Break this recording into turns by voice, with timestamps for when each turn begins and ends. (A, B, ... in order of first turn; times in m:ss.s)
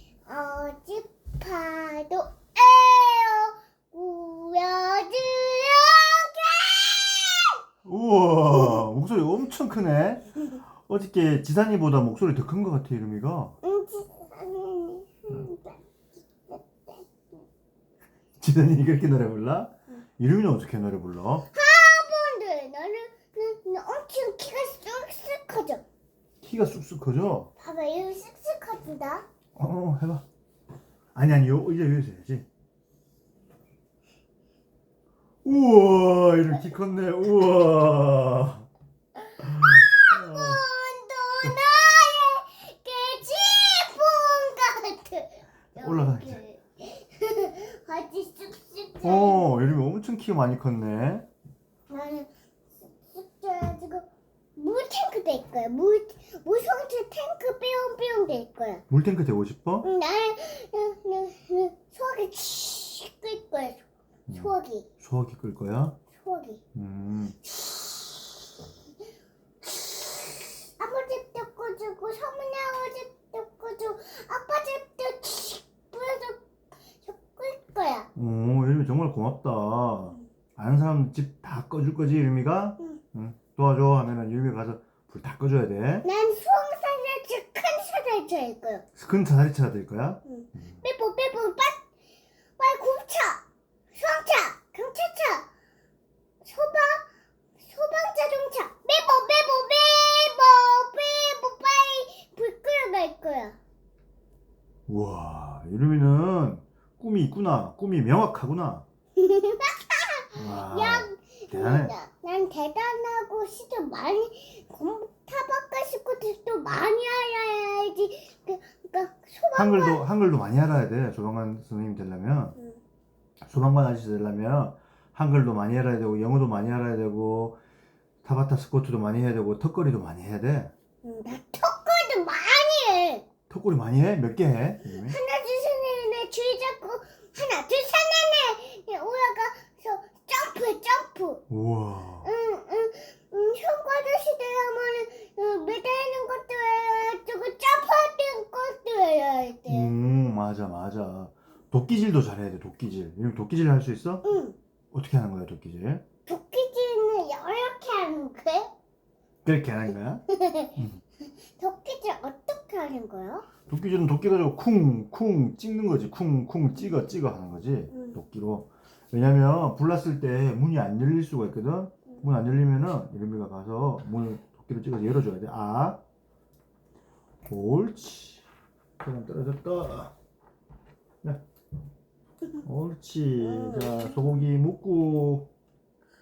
0:00.3-0:07.6 A
0:07.8-0:13.6 B
0:08.5-0:08.8 A
0:13.6-0:15.8 A
0:16.5-0:17.0 A
0:18.4-0:21.5 B
0:21.5-0:25.8 A
0:26.4-0:27.5 B
0:27.6-0:29.2 A
0:29.6-0:30.2 B
0:31.1-0:32.5 B
0:35.4-0:38.7 B
0:39.2-0:49.4 A
0:39.4-0:40.6 B
0:45.7-0:46.4 B
0:49.0-0:51.3 B
0:51.9-0:52.3 A
0:52.8-0:58.8 A
0:58.9-0:59.9 B
0:59.8-1:04.9 A
1:04.3-1:06.0 B
1:06.1-1:06.6 A
1:06.8-1:07.4 B
1:07.5-1:08.2 A
1:09.6-1:16.4 A
1:17.0-1:18.1 A
1:18.2-1:26.1 B
1:26.0-1:28.9 A
1:29.0-1:30.7 B
1:30.2-1:31.8 A
1:32.6-1:33.4 A
1:33.9-1:35.5 A
1:36.4-1:37.1 A
1:37.6-1:43.6 A
1:44.9-1:48.9 B
1:49.2-2:00.0 A
1:50.4-1:51.9 B
1:59.6-2:02.6 B
2:03.4-2:07.6 B
2:08.2-2:10.7 B
2:11.0-2:13.3 A
2:13.5-2:15.2 B
2:14.9-2:21.4 A
2:21.5-2:22.3 B
2:22.2-2:29.9 A
2:29.7-2:34.2 B
2:34.2-2:34.6 A
2:34.9-2:36.0 B
2:36.3-2:38.7 A
2:39.4-2:40.2 B
2:40.3-2:40.8 A
2:40.8-2:41.0 B
2:41.6-2:43.5 A
2:43.7-2:56.0 B
2:47.9-2:48.2 A
2:57.5-2:58.4 B
2:59.0-3:00.1 B
3:02.6-3:05.5 B
3:03.4-3:04.3 A